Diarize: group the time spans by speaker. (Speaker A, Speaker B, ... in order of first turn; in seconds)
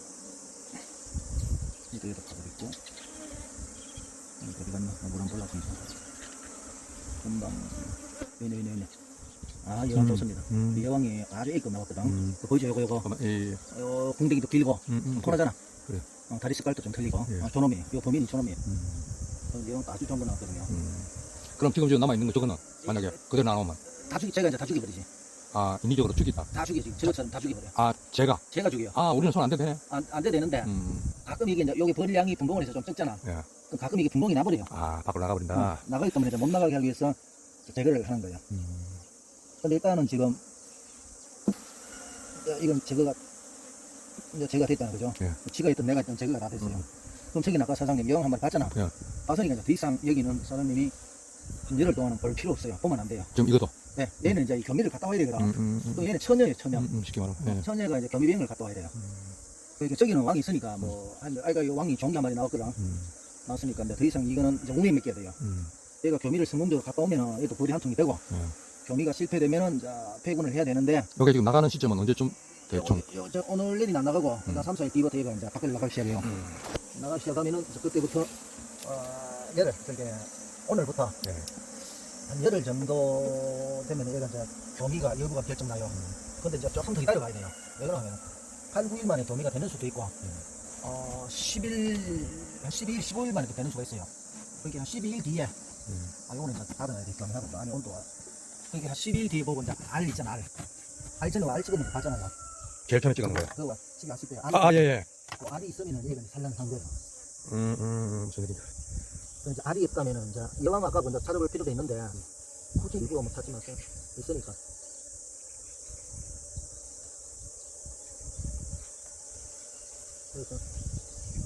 Speaker A: 1.9-2.8, 4.4-5.9, 7.2-8.9, 9.6-13.1, 13.7-15.6, 16.3-18.6, 19.5-20.7, 22.8-23.1, 23.9-25.1, 26.5-27.8, 28.5-29.0, 29.9-34.7, 35.5-38.4, 39.6-40.4, 42.3-43.2, 44.3-50.9, 51.7-53.4, 53.9-56.9, 57.4-58.9, 59.8-62.8, 63.5-65.4, 66.0-68.2, 68.8-71.1, 72.7-76.3, 76.9-81.2, 82.2-90.2, 90.8-95.5, 96.2-98.1, 98.7-100.5, 101.2-102.3, 103.2-107.0, 109.4-112.2, 112.7-114.6, 120.3-120.6
Speaker B: 9.9-10.9, 12.0-12.4, 13.0-13.6, 14.9-16.1, 18.6-19.1, 20.7-23.8, 25.5-26.5, 27.8-28.4, 28.9-29.8, 30.6-31.1, 34.7-35.8, 38.5-39.0, 53.3-53.7, 55.4-56.1, 56.7-57.6, 59.0-59.4, 62.8-63.1, 65.4-65.7, 68.3-68.5, 71.2-73.0, 76.2-76.6, 81.2-81.5, 102.9-103.5, 104.5-105.1, 107.5-108.7